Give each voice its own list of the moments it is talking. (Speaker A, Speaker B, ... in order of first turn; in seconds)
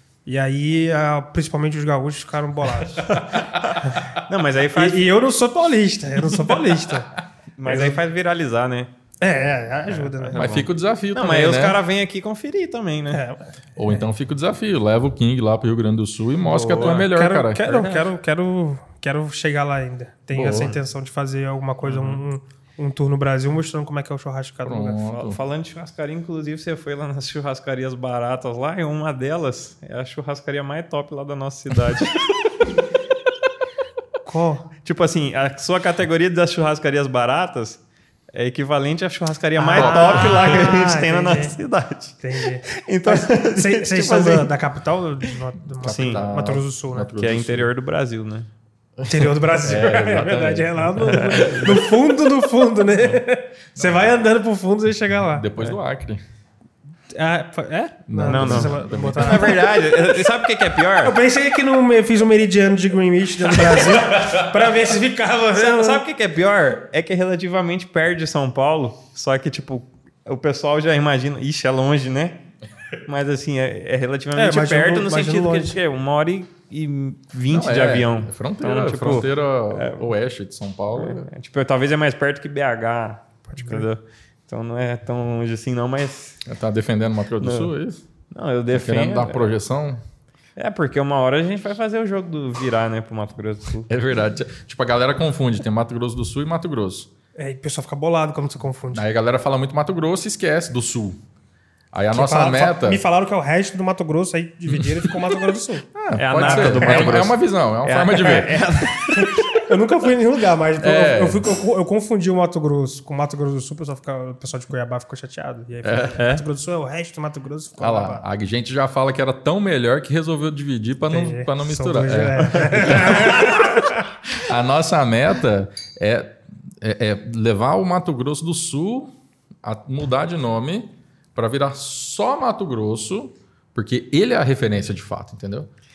Speaker A: 0.3-4.1, 4.7-8.0, 9.2-10.5, 13.1-13.5, 17.0-25.2, 34.2-34.7, 39.6-41.6, 42.2-47.1, 49.1-55.5, 57.1-60.0, 61.0-66.0, 74.3-75.8, 83.5-83.9, 97.4-99.0, 102.1-107.2, 109.1-118.2, 121.1-124.0
Speaker B: 4.2-5.1, 7.6-8.9, 9.9-13.2, 16.4-17.1, 21.9-22.2, 25.2-32.3, 34.8-37.8, 38.3-44.5, 45.9-46.3, 47.1-48.5, 51.0-51.8, 58.3-61.1, 65.5-72.4, 73.0-80.1, 81.0-86.4, 87.4-87.7, 88.3-89.4, 90.6-93.9, 106.2-109.3, 116.2-116.5
Speaker C: 10.3-11.8, 13.8-18.0, 20.3-20.8, 24.6-25.4, 39.8-40.5, 45.8-47.7, 49.0-51.4, 53.8-54.0, 55.3-56.2, 58.1-59.6, 64.2-64.4, 77.5-81.3, 86.5-88.0, 88.7-90.0, 93.9-97.1, 98.9-101.2, 101.9-103.0, 104.7-105.3, 105.9-108.6, 110.8-111.5, 115.8-116.2, 117.8-135.7